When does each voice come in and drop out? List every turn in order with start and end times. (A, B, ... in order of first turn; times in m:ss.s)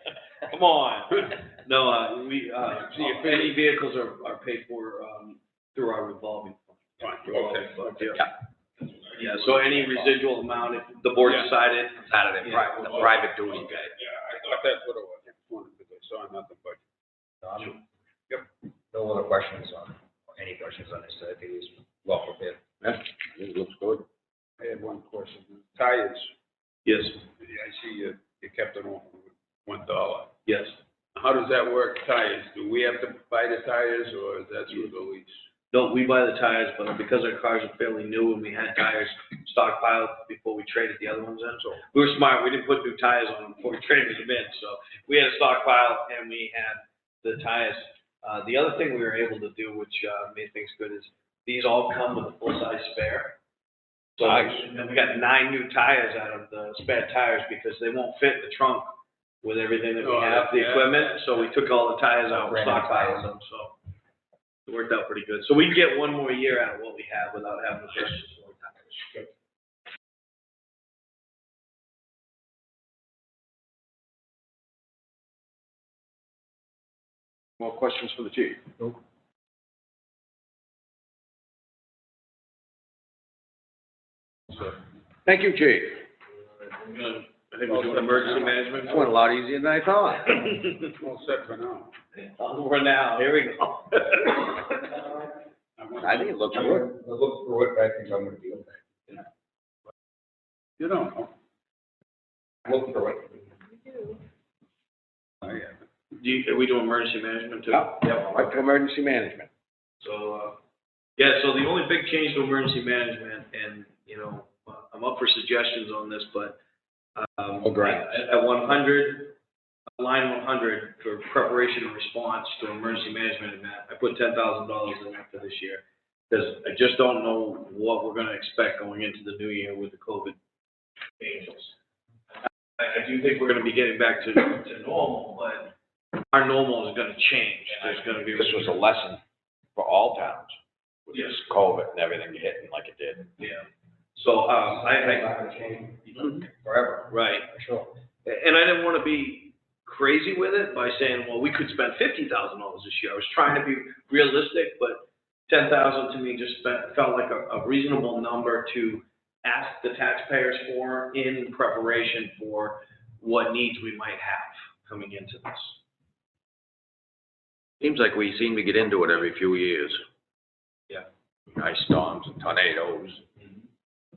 0:00.4-0:08.3 A
0:02.8-0:03.5 B
0:07.0-0:08.2 B
0:08.8-0:09.6 B
0:09.1-0:13.2 A
0:12.1-0:13.9 C
0:13.4-0:16.8 B
0:17.4-0:17.8 C
0:18.9-0:22.6 C
0:22.8-0:24.0 D
0:24.6-0:26.3 B
0:26.8-0:27.2 A
0:27.4-0:30.3 B
0:30.4-0:30.8 A
0:31.1-0:35.4 B
0:35.7-0:53.4 A
0:54.2-0:54.6 D
0:54.2-1:03.8 A
1:00.0-1:01.2 B
1:02.3-1:03.2 C
1:04.6-1:09.3 A
1:17.6-1:18.7 D
1:25.2-1:26.0 D
1:26.7-1:29.1 A
1:27.7-1:29.1 B
1:28.7-1:30.6 D
1:30.3-1:30.9 A
1:30.9-1:31.9 B
1:32.2-1:35.1 A
1:35.8-1:36.6 B
1:36.0-1:36.9 D
1:36.5-1:38.8 C
1:40.8-1:41.3 B
1:42.6-1:43.5 C
1:45.4-1:45.8 B
1:46.2-1:48.5 A
1:47.7-1:49.5 D
1:50.0-1:50.6 A
1:51.2-1:56.6 A
1:57.2-1:59.4 A
1:57.6-1:58.1 D
2:00.0-2:10.4 A
2:11.2-2:11.7 A
2:12.8-2:15.7 A
2:16.3-2:18.7 A
2:17.8-2:19.2 D
2:19.8-2:20.5 D
2:21.1-2:23.3 D
2:23.4-2:25.5 A
2:24.6-2:27.9 C
2:27.1-2:27.5 A
2:28.2-2:45.8 A
2:47.8-2:50.0 D
2:51.5-2:53.2 D